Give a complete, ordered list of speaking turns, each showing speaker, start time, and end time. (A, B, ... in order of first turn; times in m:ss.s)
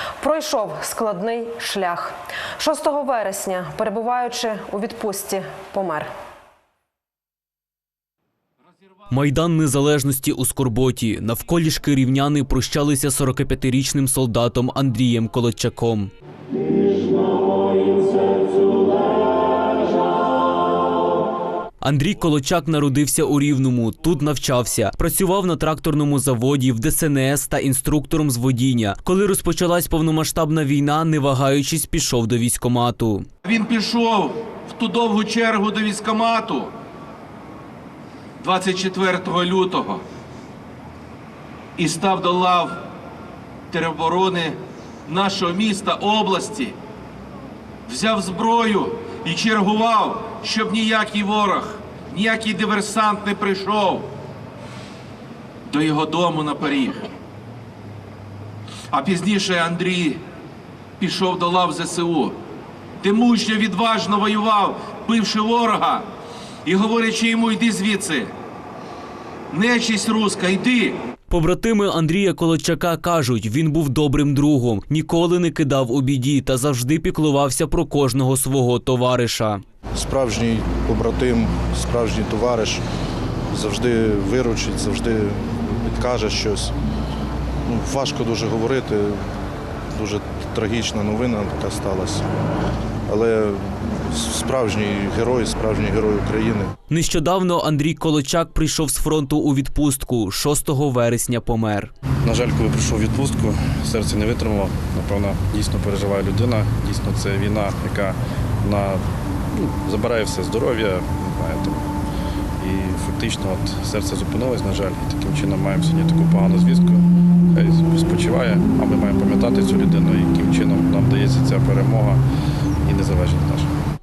0:00.2-0:06.1 A
0:09.1-0:16.1 B
0:21.8-0:33.2 B
0:33.4-0:36.7 C
0:38.4-0:40.0 C
0:41.8-0:42.8 C
0:43.7-0:46.8 C
0:47.9-0:54.1 C
0:55.7-0:57.0 C
0:58.9-1:00.2 C
1:01.0-1:02.4 C
1:03.0-1:06.0 C
1:06.6-1:08.3 C
1:09.5-1:11.0 C
1:11.3-1:19.6 B
1:19.9-1:22.8 D
1:23.5-1:26.7 D
1:27.6-1:29.2 D
1:29.9-1:32.3 D
1:33.1-1:36.7 D
1:36.9-1:41.9 B
1:42.2-1:49.0 E
1:49.6-1:51.9 E
1:52.6-2:02.2 E
2:02.8-2:03.7 E